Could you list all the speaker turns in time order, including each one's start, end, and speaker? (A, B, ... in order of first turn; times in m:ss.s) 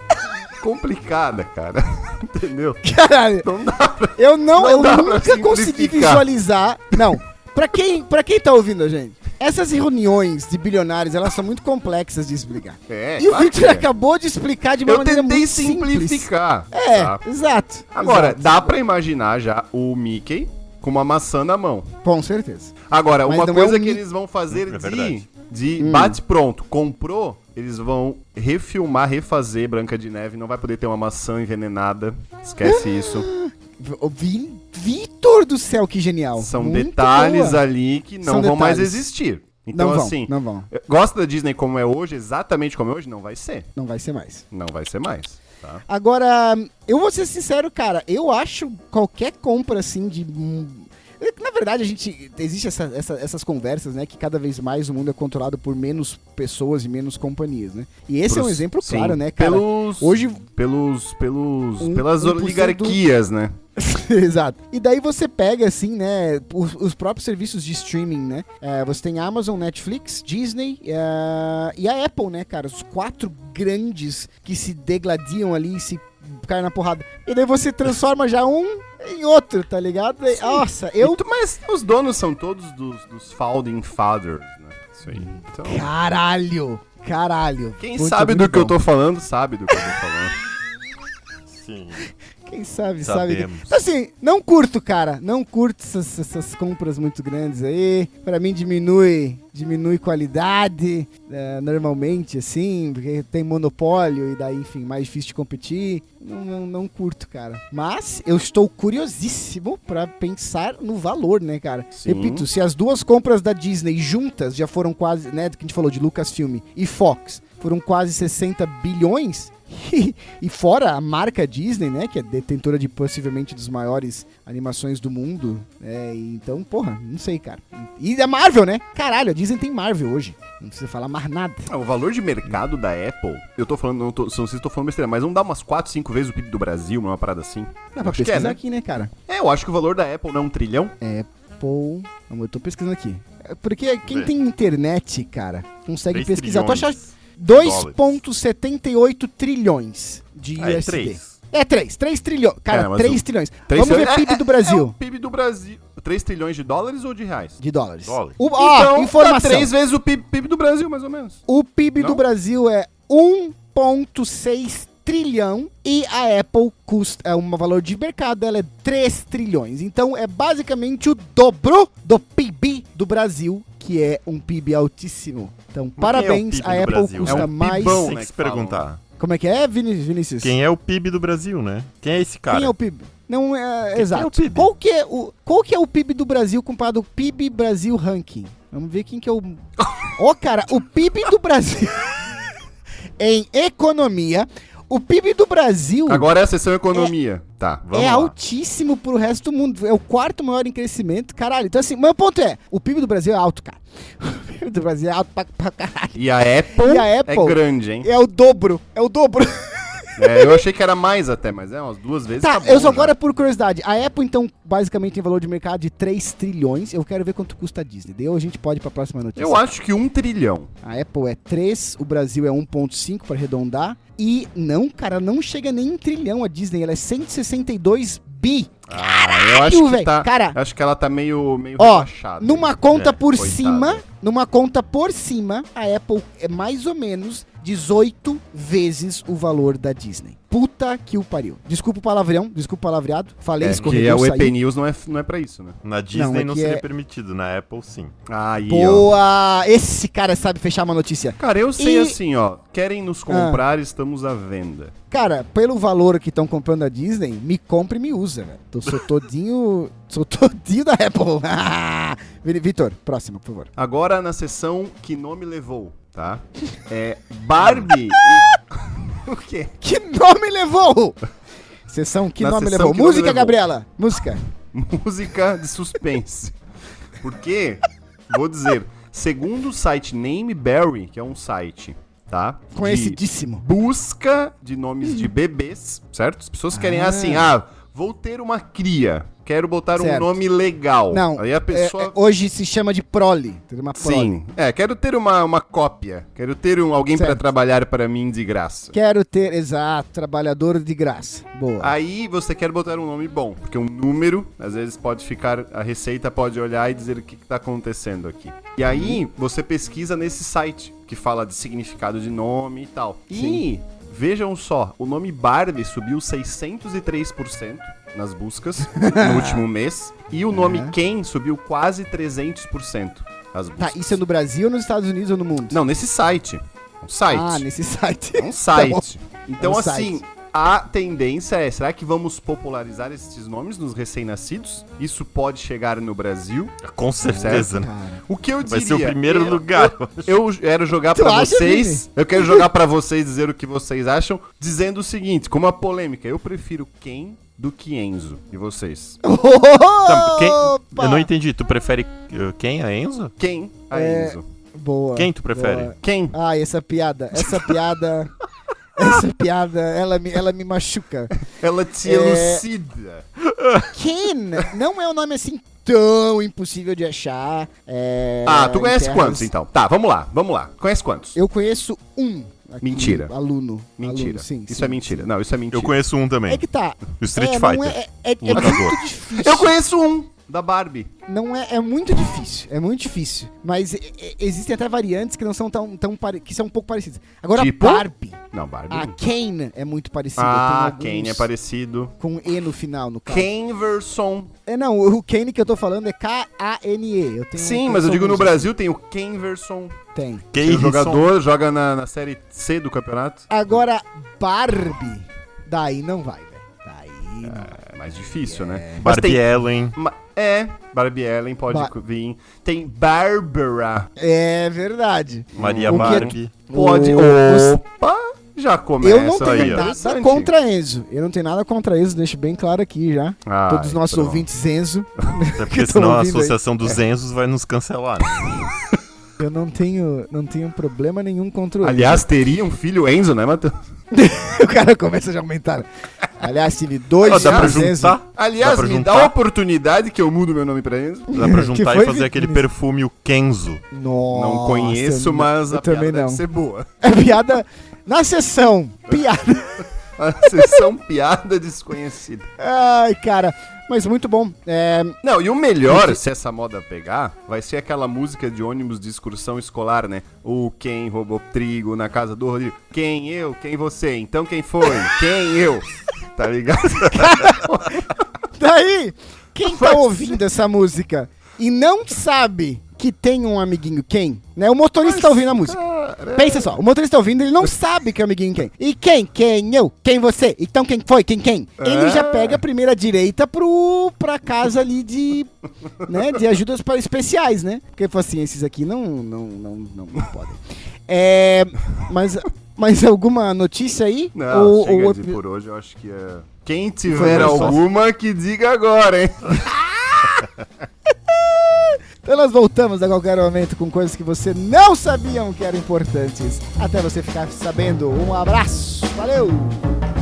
0:00.6-0:02.8 A
0:02.8-0:03.5 B
0:03.4-0:06.2 A
0:04.2-0:18.7 B
0:12.9-0:13.9 A
0:14.8-0:17.2 A
0:17.9-0:21.9 A
0:22.0-0:22.7 B
0:22.9-0:33.3 A
0:23.2-0:24.0 B
0:24.5-0:25.2 C
0:25.8-0:26.2 B
0:32.6-0:37.6 B
0:36.4-0:43.7 A
0:38.2-0:39.0 B
0:39.7-0:40.7 B
0:43.8-0:44.4 B
0:44.5-0:45.8 A
0:45.9-1:00.4 B
0:58.3-1:03.6 A
1:01.8-1:03.0 B
1:03.8-1:21.2 B
1:20.3-1:25.9 A
1:25.1-1:28.8 B
1:27.8-1:30.4 A
1:31.5-1:32.0 C
1:32.4-2:11.7 B
1:33.0-1:33.7 C
1:51.9-1:52.4 A
2:11.7-2:18.6 A
2:18.0-2:19.1 B
2:19.3-2:21.0 A
2:21.0-2:34.9 B
2:24.0-2:24.3 C
2:26.1-2:28.2 C
2:30.6-2:31.4 C
2:32.7-2:37.6 A
2:37.6-2:39.7 B
2:38.1-2:38.4 C
2:38.6-2:41.4 A
2:41.5-2:58.1 B
2:56.0-2:59.0 C
2:57.2-2:58.8 A
2:59.2-3:00.5 B
3:00.4-3:02.7 C
3:02.5-3:12.1 B
3:03.9-3:04.7 C
3:13.2-3:16.3 B
3:16.1-3:17.8 A
3:17.8-3:18.3 C
3:17.9-3:26.2 B
3:26.2-3:28.1 A
3:26.8-3:30.6 B
3:30.2-3:33.1 A
3:32.4-3:39.7 B
3:39.4-3:40.7 A
3:40.8-3:50.6 B
3:48.9-3:54.0 A
3:51.8-4:04.6 B
4:03.6-4:05.8 A
4:05.8-4:08.1 C
4:06.1-4:06.8 B
4:08.3-4:09.1 A
4:08.6-4:12.2 B
4:11.4-4:14.9 A
4:13.3-4:13.6 B
4:15.1-4:23.7 B
4:23.8-4:29.7 A
4:29.8-4:31.2 B
4:31.9-4:34.4 B
4:32.4-4:33.6 A
4:34.7-4:36.6 A
4:37.2-4:52.1 A
4:42.7-4:43.6 B
4:46.7-4:47.5 B
4:50.0-4:50.4 B
4:51.1-4:54.3 B
4:54.0-4:58.9 A
4:57.1-4:57.4 B
4:58.9-5:01.9 B
5:01.8-5:24.2 A
5:08.9-5:09.2 B
5:13.3-5:13.6 B
5:18.9-5:19.6 B
5:20.5-5:20.9 B
5:23.8-5:25.8 B
5:25.7-5:27.6 A
5:27.3-5:29.0 B
5:28.4-5:37.7 A
5:29.6-5:30.2 B
5:36.8-5:37.9 C
5:37.3-5:38.2 B
5:38.3-5:49.2 A
5:38.6-5:40.3 C
5:41.1-5:42.6 B
5:49.2-5:51.3 B
5:50.0-5:53.3 C
5:53.4-5:54.4 A
5:53.9-5:58.3 B
5:55.2-5:55.9 C
5:56.0-5:56.4 A
5:59.0-6:01.3 B
6:01.5-6:03.2 A
6:02.0-6:02.6 B
6:03.5-6:03.9 C
6:03.9-6:09.5 B
6:08.4-6:11.4 A
6:11.3-6:15.3 B
6:12.8-6:13.3 A
6:14.0-6:16.0 A
6:15.7-6:16.6 C
6:16.5-6:19.8 B
6:17.2-6:19.0 C
6:18.6-6:21.1 A
6:21.3-6:28.4 B
6:27.5-6:29.1 A
6:28.9-6:31.5 B
6:30.4-6:32.1 A
6:32.2-6:33.5 B
6:33.3-6:34.5 A
6:34.7-6:38.7 B
6:37.5-6:40.0 A
6:40.1-6:40.5 B
6:40.5-6:41.3 C
6:40.6-6:43.5 A
6:43.5-6:49.1 B
6:47.4-6:54.1 A
6:49.0-6:50.0 C
6:54.2-6:57.8 B
6:55.6-6:56.5 C
6:55.6-7:00.5 A
6:59.0-7:06.5 B
6:59.4-6:59.8 C
7:03.4-7:04.5 A
7:05.5-7:08.6 C
7:09.4-7:12.2 B
7:11.8-7:13.7 A
7:14.1-7:18.2 B
7:17.2-7:19.3 C
7:17.2-7:21.4 A
7:21.3-7:22.6 B
7:21.3-7:23.8 C
7:23.9-7:26.4 B
7:24.3-7:26.9 A
7:27.0-7:29.8 B
7:30.2-7:32.5 A
7:30.4-7:30.8 B
7:32.6-7:35.2 B
7:35.2-7:48.2 A
7:35.9-7:36.2 B
7:47.1-7:47.7 B
7:48.6-7:55.8 B
7:49.6-7:50.3 A
7:55.0-7:56.7 A
7:56.3-8:05.5 B
8:01.8-8:02.6 A
8:06.0-8:15.4 B
8:14.4-8:19.7 A
8:17.1-8:17.8 B
8:17.1-8:17.8 C
8:19.5-8:20.4 B
8:21.3-8:29.9 B